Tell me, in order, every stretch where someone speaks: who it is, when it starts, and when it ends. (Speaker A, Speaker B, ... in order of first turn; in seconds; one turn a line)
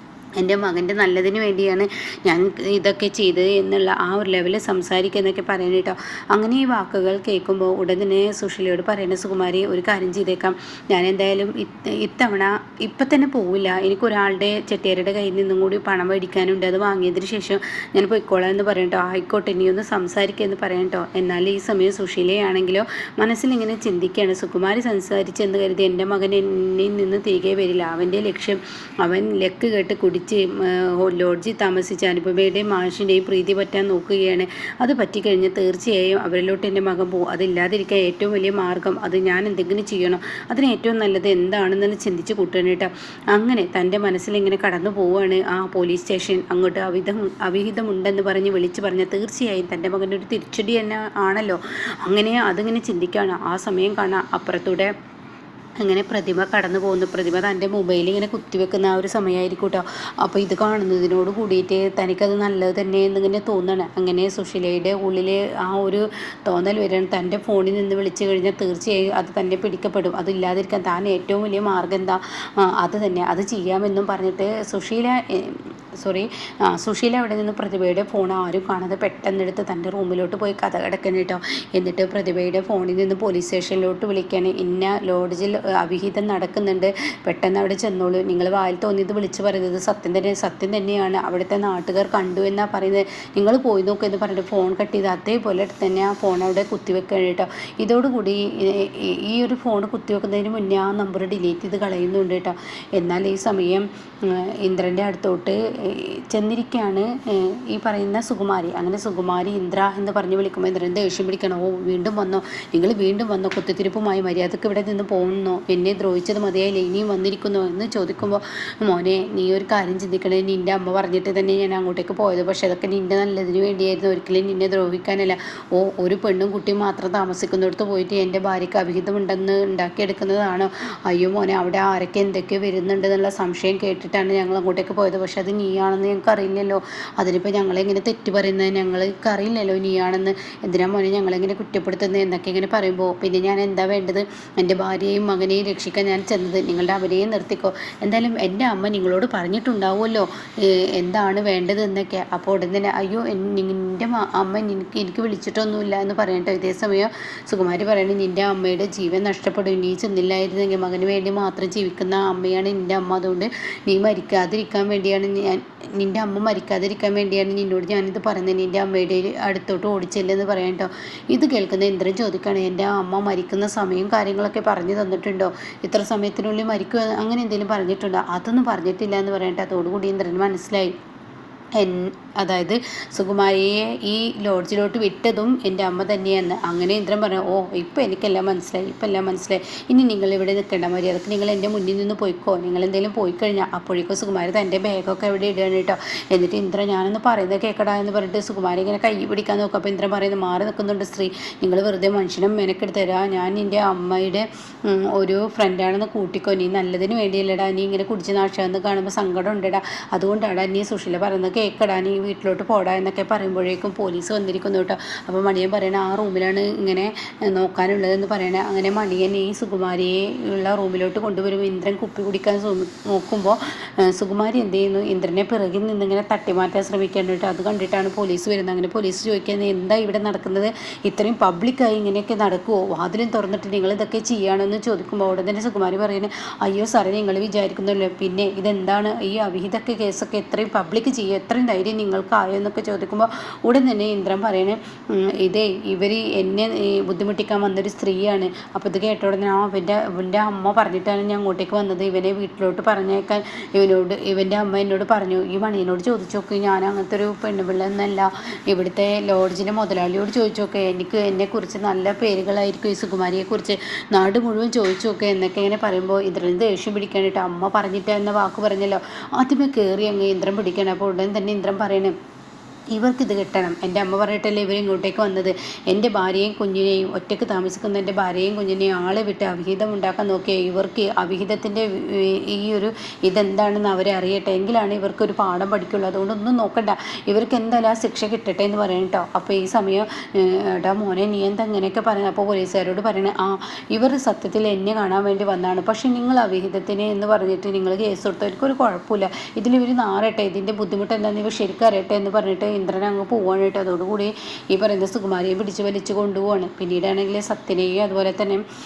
Speaker A: 0.4-54.9
Speaker A: 55.8-180.9
Speaker A: 181.8-272.1
Speaker A: 272.9-308.6